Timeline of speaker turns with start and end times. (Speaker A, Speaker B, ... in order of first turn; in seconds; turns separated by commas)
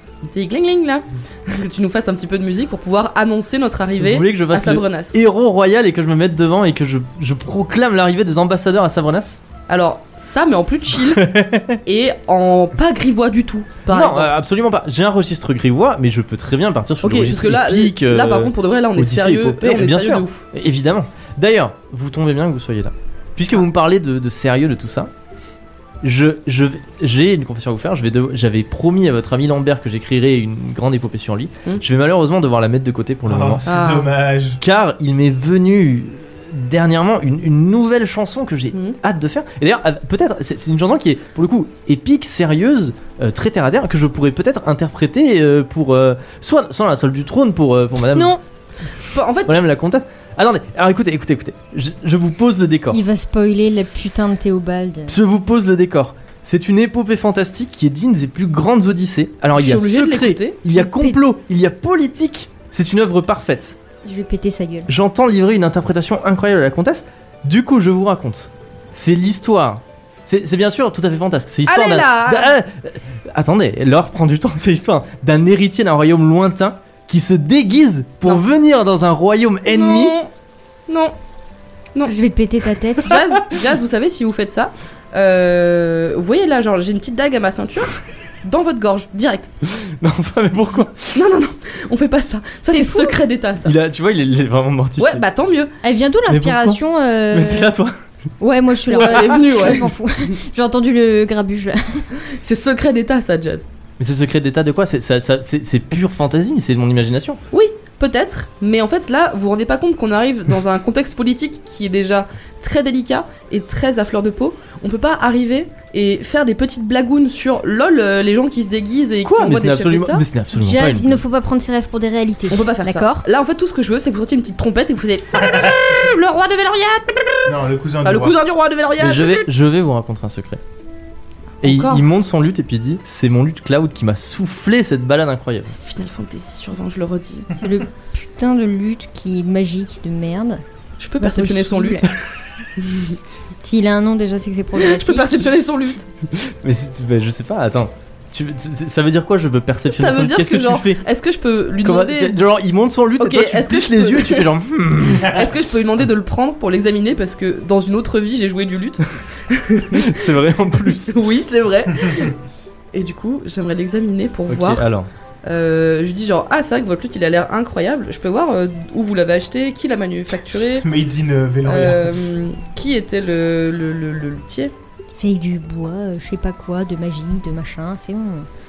Speaker A: 0.2-5.2, Speaker B: 4.0-9.4, Speaker A: 9.7-11.3, Speaker B: 11.1-11.8, Speaker A: 11.8-14.3, Speaker B: 13.9-25.1, Speaker A: 17.0-20.4, Speaker B: 26.0-33.6, Speaker C: 33.2-34.6, Speaker A: 33.6-34.1, Speaker B: 34.6-48.4, Speaker D: 48.1-48.4, Speaker A: 49.0-49.6, Speaker B: 49.5-53.0, Speaker D: 52.9-55.2, Speaker B: 55.1-63.8, Speaker A: 59.5-60.6, Speaker D: 60.7-61.2, Speaker D: 64.0-64.9, Speaker B: 64.9-80.1, Speaker A: 71.7-72.5, Speaker A: 79.7-80.3, Speaker A: 80.9-81.1, Speaker D: 82.1-83.2, Speaker A: 83.0-89.5, Speaker B: 89.7-91.2, Speaker A: 91.1-93.7, Speaker D: 92.7-93.2, Speaker B: 93.6-95.2, Speaker A: 95.0-95.7, Speaker D: 95.8-97.7, Speaker B: 96.3-97.9, Speaker D: 98.4-102.1, Speaker A: 98.8-100.3, Speaker A: 102.2-103.7, Speaker B: 104.0-107.4, Speaker A: 107.5-120.2, Speaker B: 119.2-121.2, Speaker D: 120.5-123.2, Speaker A: 122.5-127.5, Speaker C: 127.4-128.3, Speaker A: 128.0-129.5, Speaker B: 129.0-130.6, Speaker B: 131.6-135.8, Speaker A: 131.6-132.0, Speaker A: 135.8-137.5, Speaker D: 137.6-140.6, Speaker A: 141.0-142.1, Speaker D: 141.2-142.1, Speaker A: 142.8-143.2, Speaker D: 143.6-145.5, Speaker A: 144.7-146.1, Speaker B: 146.3-151.0, Speaker A: 149.9-152.4, Speaker B: 151.8-155.5, Speaker A: 153.2-154.5, Speaker A: 155.2-160.2, Speaker B: 159.9-161.2, Speaker A: 161.1-162.3, Speaker A: 162.9-164.9, Speaker B: 164.5-165.1, Speaker A: 165.4-170.8, Speaker C: 170.8-172.2, Speaker A: 171.7-174.7, Speaker D: 175.2-178.5